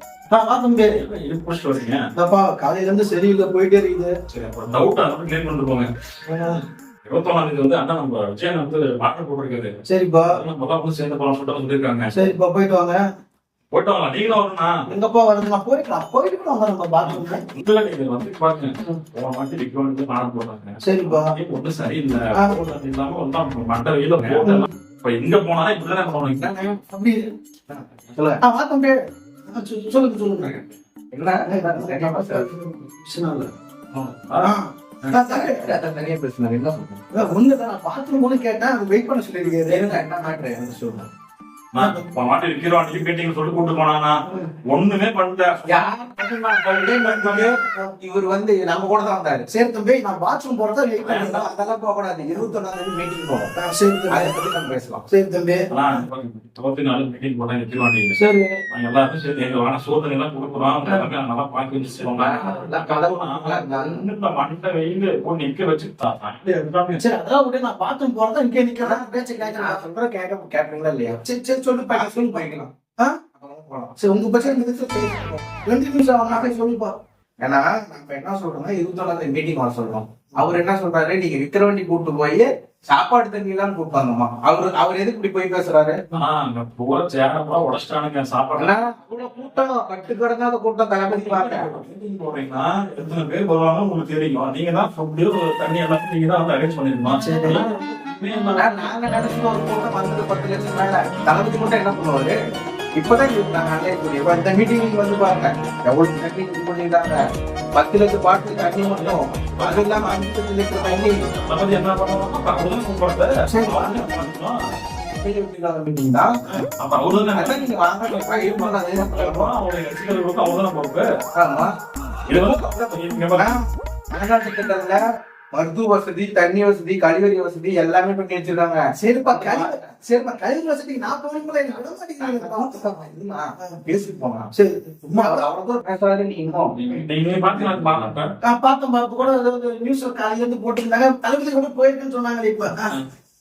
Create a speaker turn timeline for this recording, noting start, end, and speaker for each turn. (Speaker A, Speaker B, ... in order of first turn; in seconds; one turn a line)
Speaker A: 0.3-1.0
Speaker B: 0.9-2.0
Speaker A: 2.2-4.1
Speaker B: 4.3-5.9
Speaker A: 6.3-6.6
Speaker B: 7.0-9.7
Speaker A: 9.9-10.3
Speaker B: 10.3-12.1
Speaker A: 12.1-13.0
Speaker B: 13.7-14.7
Speaker A: 14.9-17.4
Speaker B: 17.0-26.5
Speaker A: 20.8-21.3
Speaker A: 22.3-22.6
Speaker A: 24.4-24.7
Speaker C: 26.4-26.8
Speaker A: 26.9-27.2
Speaker C: 27.7-28.4
Speaker A: 28.4-29.0
Speaker A: 29.5-30.6
Speaker C: 31.1-32.5
Speaker A: 31.5-33.5
Speaker B: 34.0-34.5
Speaker A: 34.4-35.7
Speaker C: 35.1-37.0
Speaker A: 37.1-40.0
Speaker C: 39.7-41.1
Speaker B: 41.7-44.1
Speaker B: 44.7-45.6
Speaker C: 45.6-49.5
Speaker B: 46.6-47.5
Speaker A: 47.0-47.9
Speaker A: 49.5-51.5
Speaker C: 51.0-53.5
Speaker A: 53.5-54.4
Speaker C: 54.1-55.0
Speaker A: 55.1-56.0
Speaker B: 55.7-58.1
Speaker A: 58.1-58.6
Speaker B: 58.7-67.0
Speaker C: 62.0-64.0
Speaker A: 67.0-69.8
Speaker C: 68.8-71.2
Speaker A: 71.2-72.4
Speaker C: 71.9-72.7
Speaker C: 73.3-75.4
Speaker A: 74.0-76.9
Speaker C: 77.4-86.0
Speaker B: 86.1-88.8
Speaker C: 88.5-91.7
Speaker B: 91.1-98.9
Speaker A: 97.1-97.6
Speaker C: 98.5-102.3
Speaker C: 103.0-107.2
Speaker C: 107.7-111.2
Speaker B: 108.5-110.2
Speaker B: 110.7-114.6
Speaker A: 113.5-113.9
Speaker C: 113.6-114.1
Speaker C: 115.1-116.3
Speaker B: 116.8-121.0
Speaker C: 117.3-119.5
Speaker A: 118.5-118.8
Speaker C: 121.4-121.7
Speaker B: 122.3-123.5
Speaker C: 122.3-125.0
Speaker C: 125.5-129.9
Speaker A: 129.0-132.9
Speaker C: 132.2-134.5
Speaker A: 134.5-135.5
Speaker C: 135.1-136.7
Speaker B: 136.7-138.3
Speaker C: 137.5-138.1
Speaker A: 138.4-142.9